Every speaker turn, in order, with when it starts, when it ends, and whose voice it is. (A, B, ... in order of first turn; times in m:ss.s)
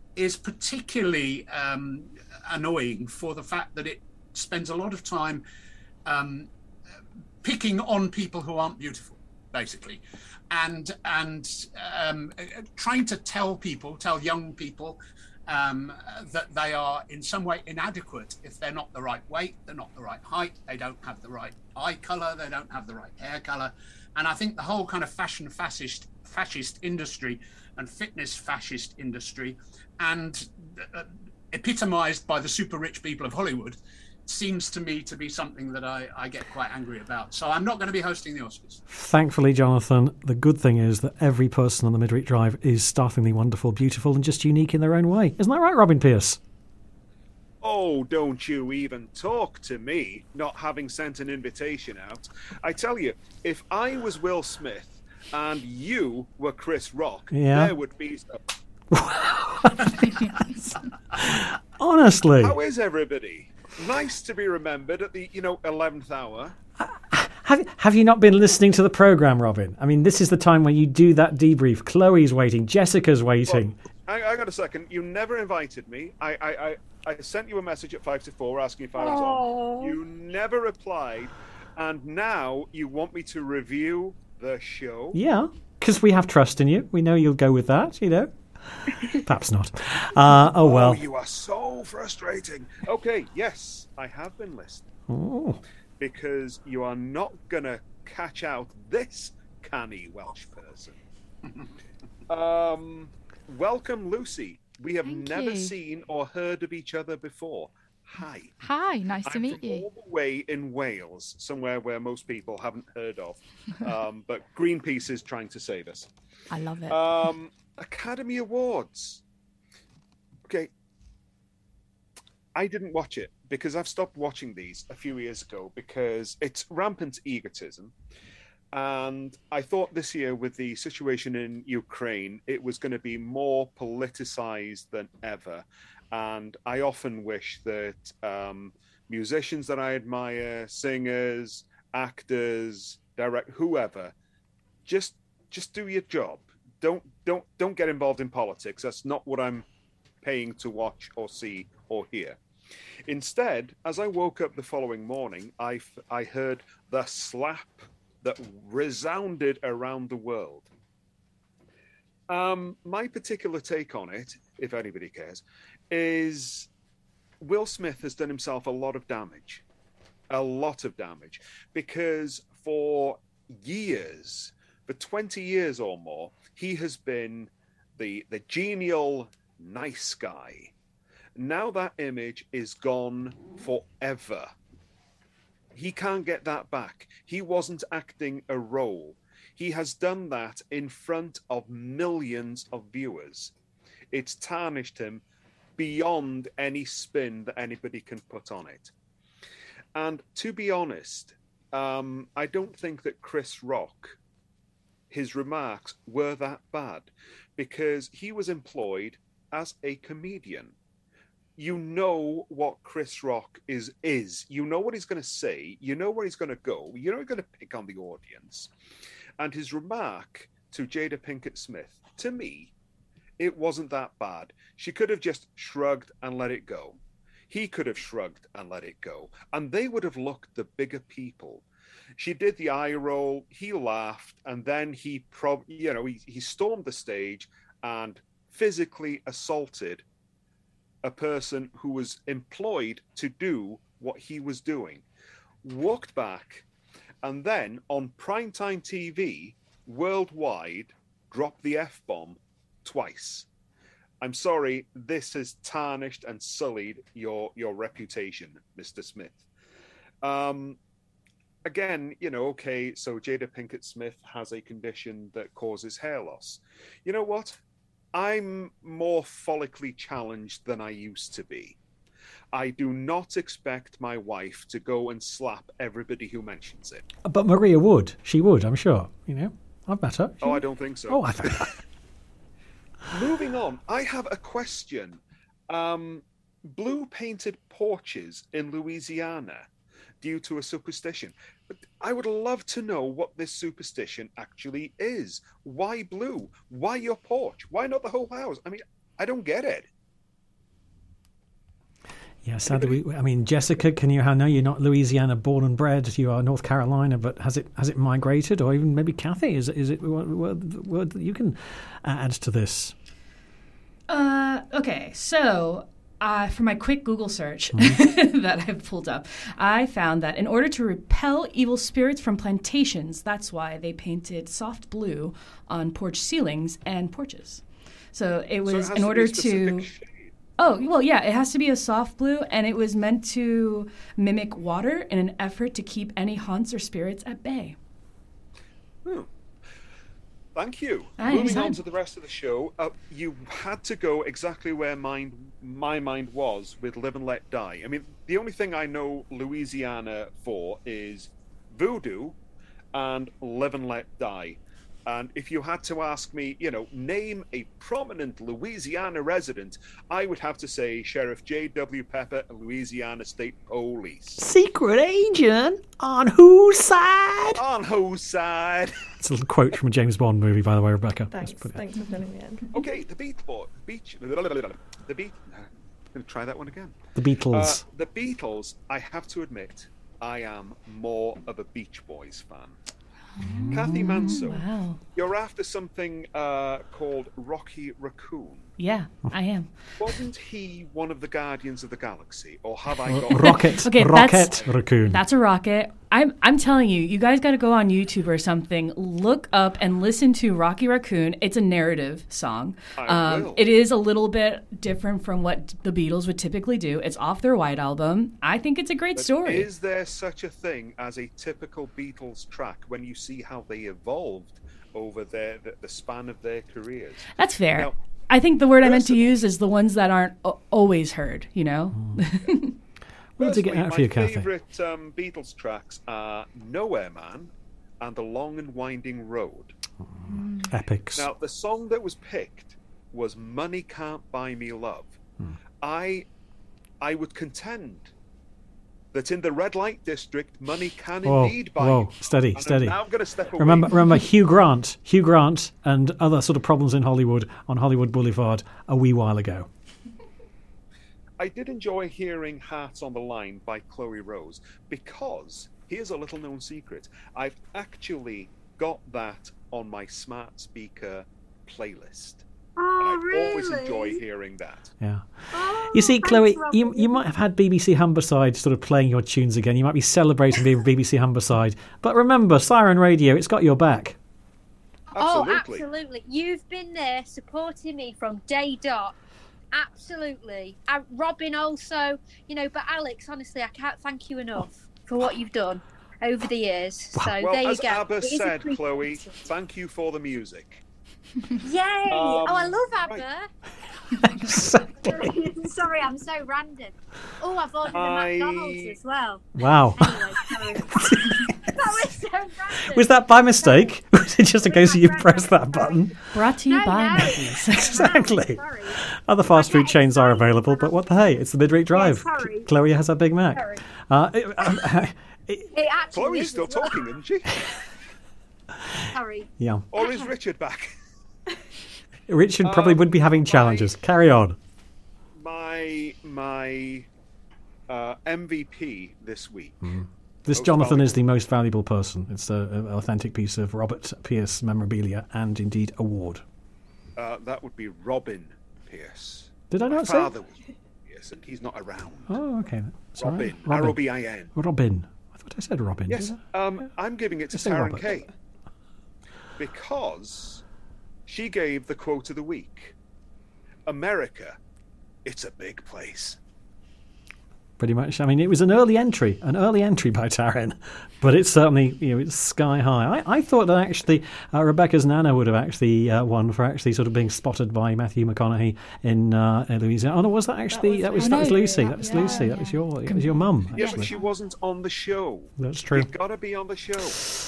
0:00.2-0:05.4 A
0:06.1-0:06.5 A
0:07.4-0:38.8 A
0:38.9-0:46.4 B
0:47.6-0:58.4 C
0:57.3-0:57.7 B
0:58.9-1:02.5 B
1:02.4-1:06.6 C
1:06.8-1:13.8 B
1:13.5-1:25.2 C
1:25.1-1:28.4 B
1:29.1-1:31.0 B
1:30.5-1:34.9 C
1:35.1-1:35.6 B
1:36.0-1:41.0 C
1:42.3-1:48.5 C
1:45.1-1:45.7 D
1:48.6-1:49.9 D
1:49.2-1:56.1 C
1:56.5-1:57.1 D
1:56.9-1:59.2 C
2:02.6-2:07.9 C
2:08.7-2:24.1 C
2:24.8-2:29.7 C
2:30.2-2:32.4 C
2:33.1-2:40.7 C
2:42.3-2:46.7 C
2:47.4-2:49.6 C
2:50.3-3:00.7 C
3:01.4-3:04.5 C
3:05.7-3:13.5 C
3:14.1-3:15.2 C
3:15.8-3:18.9 C
3:20.0-3:24.2 C
3:25.1-3:30.8 C
3:31.6-3:38.7 C
3:39.4-3:42.7 C
3:43.4-3:47.0 C
3:47.5-3:51.6 C
3:52.2-4:00.0 C
4:01.0-4:05.0 C
4:05.6-4:06.6 C
4:07.2-4:13.5 C
4:14.2-4:19.4 C
4:20.2-4:20.8 C
4:21.6-4:27.6 C
4:28.1-4:31.8 C
4:32.5-4:37.0 C
4:37.2-4:41.8 B
4:40.4-4:41.7 C
4:43.1-4:49.7 C
4:50.2-4:59.9 C
5:02.4-5:13.0 B
5:02.7-5:03.0 C
5:14.1-5:29.9 E
5:28.6-5:30.3 C
5:30.6-5:37.8 E
5:40.6-5:52.4 C
5:41.2-5:41.8 E
5:52.9-6:04.4 C
6:04.4-6:07.6 B
6:07.5-6:09.0 C
6:09.2-6:11.8 B
6:11.3-6:12.7 F
6:12.7-6:17.0 C
6:17.2-6:17.8 B
6:17.5-6:22.8 C
6:23.4-6:23.9 B
6:23.6-6:25.0 E
6:23.7-6:28.7 C
6:28.8-6:30.1 E
6:30.0-6:33.8 C
6:33.1-6:35.2 B
6:33.5-6:49.7 E
6:43.0-6:43.6 C
6:49.2-6:57.9 C
6:57.3-7:02.8 E
6:58.8-6:59.4 C
7:01.9-7:02.2 B
7:03.4-7:04.5 B
7:03.4-7:09.8 C
7:10.1-7:11.3 B
7:11.1-7:15.2 C
7:15.8-7:16.3 C
7:17.0-7:18.1 C
7:19.1-7:24.0 C
7:21.2-7:23.0 B
7:23.6-7:29.7 B
7:31.4-7:42.4 C
7:42.8-7:44.2 G
7:43.0-7:44.9 C
7:45.0-7:45.3 B
7:45.5-7:47.2 G
7:45.9-7:54.2 B
7:55.1-7:59.2 G
7:55.2-7:55.9 C
7:59.7-8:09.5 G
8:07.3-8:10.8 C
8:11.6-8:13.5 G
8:12.1-8:13.3 C
8:14.4-8:15.3 B
8:15.0-8:23.9 G
8:17.9-8:19.0 C
8:19.6-8:20.2 B
8:20.9-8:21.5 B
8:22.9-8:26.2 B
8:24.6-8:26.1 G
8:26.3-8:28.0 E
8:26.7-8:29.0 G
8:27.2-8:35.7 B
8:29.5-8:32.7 G
8:33.5-8:33.8 G
8:35.7-8:37.1 G
8:36.1-8:37.7 C
8:39.1-8:40.3 G
8:39.6-8:39.8 B
8:39.9-8:40.9 C
8:42.3-8:44.6 B
8:42.6-8:43.9 C
8:45.4-8:47.1 C
8:47.9-8:49.9 C
8:49.8-8:56.4 B
8:50.5-8:51.2 C
8:57.2-9:02.4 C
8:59.7-9:00.3 B
9:02.3-9:06.4 B
9:03.2-9:04.5 C
9:06.1-9:08.3 C
9:07.5-9:08.2 B
9:09.6-9:10.6 C
9:11.3-9:12.9 C
9:13.9-9:14.6 C
9:15.2-9:16.4 C
9:17.8-9:34.1 B
9:30.7-9:32.7 F
9:31.2-9:32.8 D
9:33.0-9:33.6 E
9:33.7-9:37.3 C
9:33.8-9:34.2 D
9:35.6-9:36.1 B